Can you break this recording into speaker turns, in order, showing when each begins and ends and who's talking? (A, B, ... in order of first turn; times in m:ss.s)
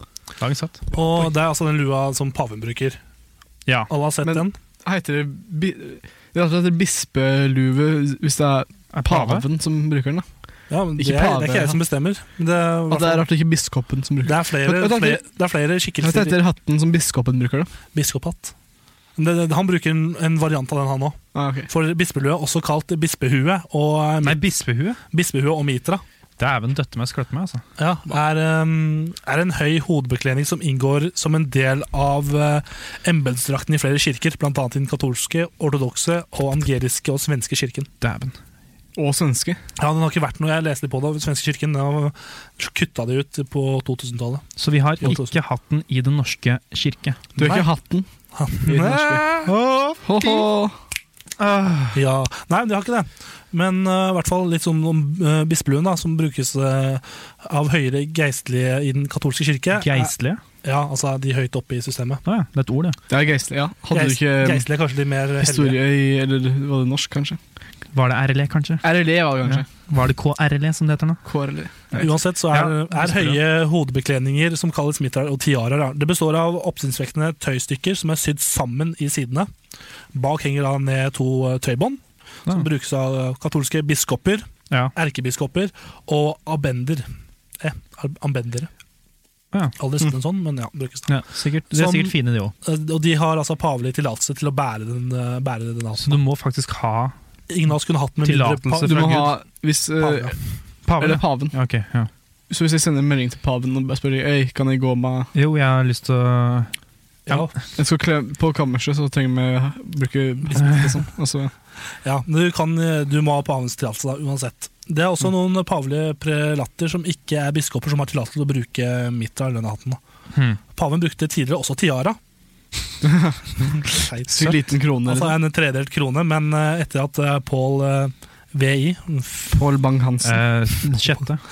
0:00.4-0:00.9 A
0:00.9-0:03.0 B
0:03.9-0:04.6 B
0:04.2-0:10.2 C
0:08.9-0:09.5 A
0:10.7-0:13.3 B
0:11.0-0:11.8 C
0:12.9-0:15.2 C
0:14.2-0:16.4 B
0:16.0-0:17.7 C
0:17.9-0:18.5 B
0:19.2-0:24.4 B
0:21.3-0:21.7 C
0:24.2-0:25.0 A
0:25.0-0:26.0 B
0:26.4-0:27.6 A
0:27.8-0:37.9 B
0:38.0-0:38.4 A
0:39.0-0:39.6 C
0:39.8-0:45.4 B
0:44.6-0:47.2 A
0:47.4-0:47.7 B
0:47.4-0:48.1 C
0:48.3-0:49.3 B
0:48.7-0:49.4 C
0:49.4-0:50.4 A
0:50.0-0:50.8 C
0:51.4-0:52.0 A
0:51.9-1:02.2 B
0:59.8-1:00.4 A
1:02.3-1:03.0 A
1:03.1-1:04.7 C
1:03.9-1:05.8 B
1:05.4-1:07.4 C
1:07.9-1:08.8 A
1:08.8-1:09.7 C
1:09.4-1:11.2 A
1:11.2-1:12.1 C
1:12.0-1:19.5 B
1:12.0-1:13.4 A
1:20.1-1:27.1 B
1:27.6-1:28.7 B
1:29.8-1:36.2 B
1:31.1-1:32.5 A
1:36.0-1:37.1 A
1:37.5-1:39.4 B
1:38.2-1:39.4 A
1:38.8-1:40.4 C
1:40.0-1:40.4 B
1:40.9-1:42.1 A
1:41.0-1:41.6 C
1:42.5-1:45.3 C
1:45.3-1:46.7 A
1:47.3-1:47.5 B
1:47.8-1:51.5 C
1:52.0-2:00.0 B
2:00.3-2:00.6 A
2:00.7-2:02.2 B
2:03.0-2:03.4 C
2:03.7-2:09.6 B
2:04.3-2:05.4 C
2:09.5-2:10.4 C
2:10.2-2:11.4 A